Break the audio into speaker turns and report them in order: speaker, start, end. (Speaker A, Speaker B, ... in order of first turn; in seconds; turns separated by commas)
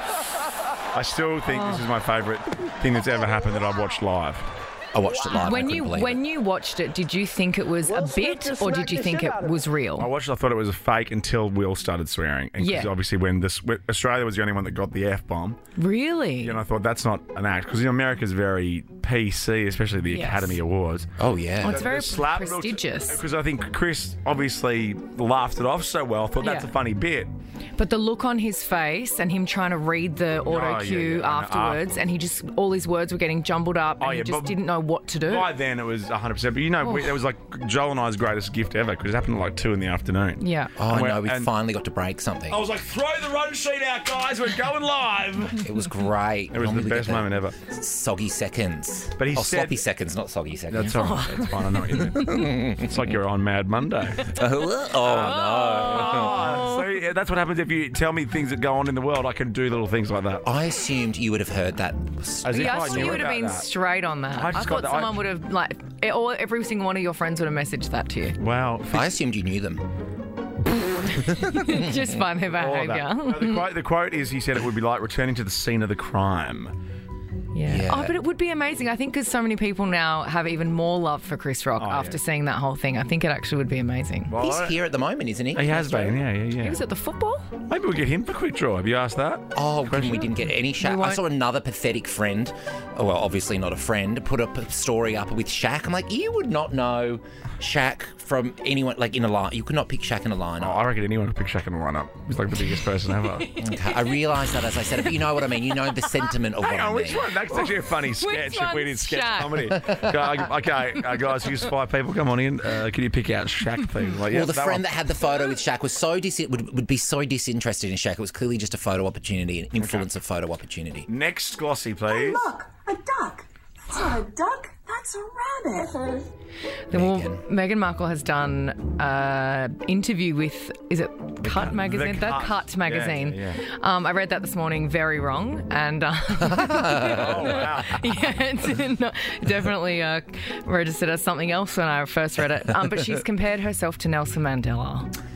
Speaker A: 0.9-4.5, Speaker B: 1.5-1.9, Speaker C: 4.9-6.2, Speaker B: 5.2-10.1, Speaker A: 10.0-15.6, Speaker B: 12.6-12.9, Speaker B: 15.8-16.6, Speaker A: 16.4-21.1, Speaker B: 20.1-20.6, Speaker C: 21.2-21.8, Speaker B: 21.6-23.2, Speaker A: 21.6-27.3, Speaker B: 26.4-26.7, Speaker B: 27.8-35.5, Speaker A: 30.4-31.9, Speaker A: 34.0-34.6, Speaker A: 35.2-41.5, Speaker B: 36.8-37.1, Speaker B: 40.4-40.8, Speaker C: 40.8-42.6, Speaker A: 42.5-45.6, Speaker C: 45.6-51.2, Speaker A: 46.5-47.6, Speaker A: 49.2-49.8, Speaker A: 50.7-54.3, Speaker B: 50.9-52.5, Speaker C: 52.0-53.0, Speaker C: 54.2-56.5, Speaker A: 55.0-60.4, Speaker B: 55.0-56.9, Speaker C: 60.4-63.2, Speaker A: 62.4-63.7, Speaker B: 62.5-68.4, Speaker A: 64.3-65.2, Speaker A: 68.4-69.2, Speaker C: 68.9-69.9, Speaker C: 71.0-72.0, Speaker B: 71.1-73.7, Speaker A: 72.5-76.7, Speaker B: 77.5-84.3, Speaker C: 77.6-78.2, Speaker A: 81.8-82.2, Speaker A: 84.3-84.8, Speaker C: 84.4-86.2, Speaker A: 85.5-86.8, Speaker B: 86.6-87.5, Speaker A: 87.7-90.4, Speaker C: 89.5-100.8, Speaker B: 90.8-91.2, Speaker A: 100.6-103.5, Speaker B: 103.0-106.4, Speaker C: 103.5-107.3, Speaker A: 106.6-114.8, Speaker B: 107.5-109.8, Speaker C: 109.7-110.1, Speaker C: 114.3-121.1, Speaker A: 119.8-120.1, Speaker A: 121.1-122.6, Speaker D: 122.1-126.3, Speaker B: 126.9-145.1, Speaker C: 126.9-127.4, Speaker A: 131.4-133.6, Speaker C: 136.6-137.1, Speaker A: 136.9-138.1